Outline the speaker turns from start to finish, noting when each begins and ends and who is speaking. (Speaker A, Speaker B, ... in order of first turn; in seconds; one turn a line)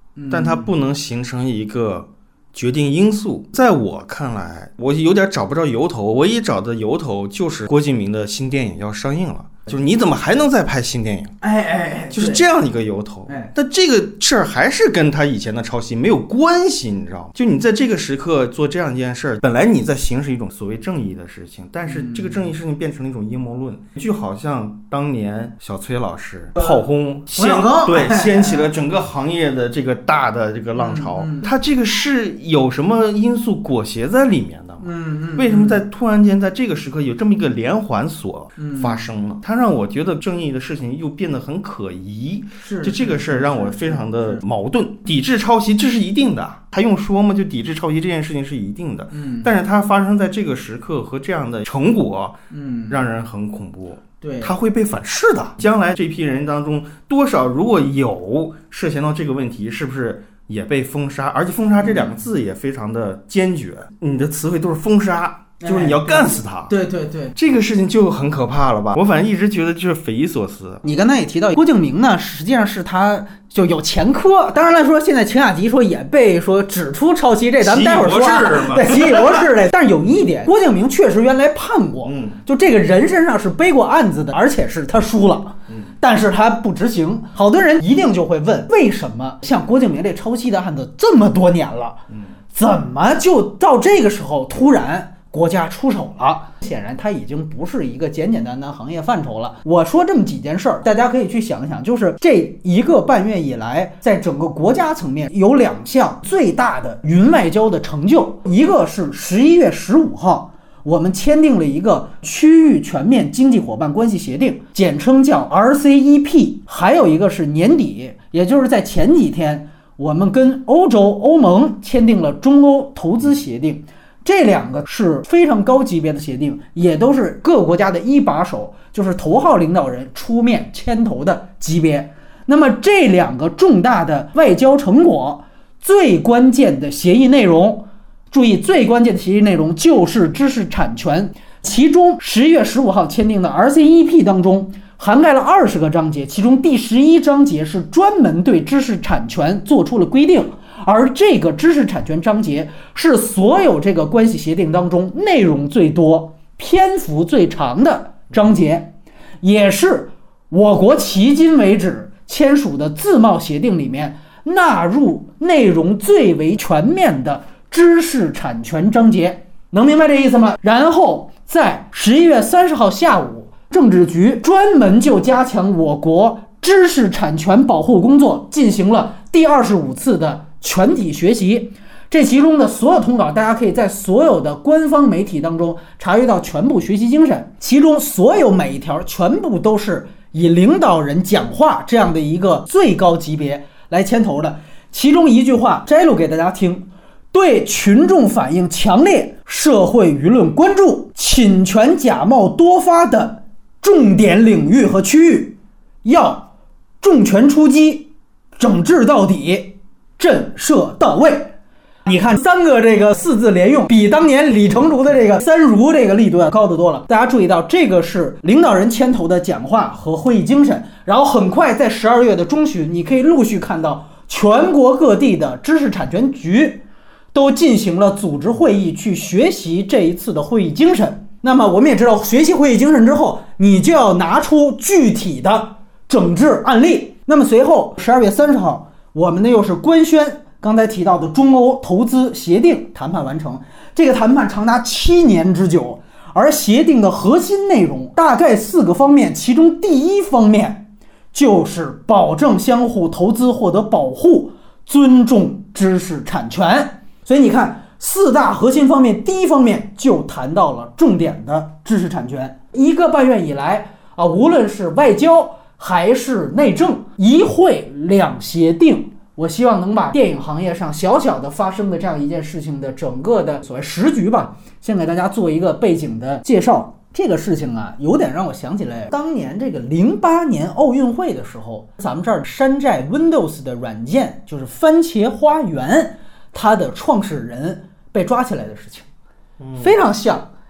Speaker A: 0.2-0.7
Speaker B: 0.3-11.3
Speaker A: 11.4-12.4
Speaker B: 12.1-52.4
Speaker A: 21.9-22.4
Speaker A: 27.3-28.7
Speaker A: 30.8-31.5
Speaker A: 34.8-35.8
Speaker A: 38.6-39.1
Speaker A: 42.6-44.4
Speaker A: 49.1-49.5
Speaker A: 52.5-53.0
Speaker B: 52.9-66.8
Speaker A: 54.2-54.6
Speaker A: 61.8-62.2
Speaker A: 65.6-67.3
Speaker B: 67.3-70.8
Speaker A: 70.8-92.0
Speaker B: 77.6-79.4
Speaker B: 82.0-82.4
Speaker A: 92.5-206.5
Speaker A: 207.0-211.5
Speaker A: 212.0-289.1
Speaker B: 289.6-289.9
Speaker A: 289.8-290.5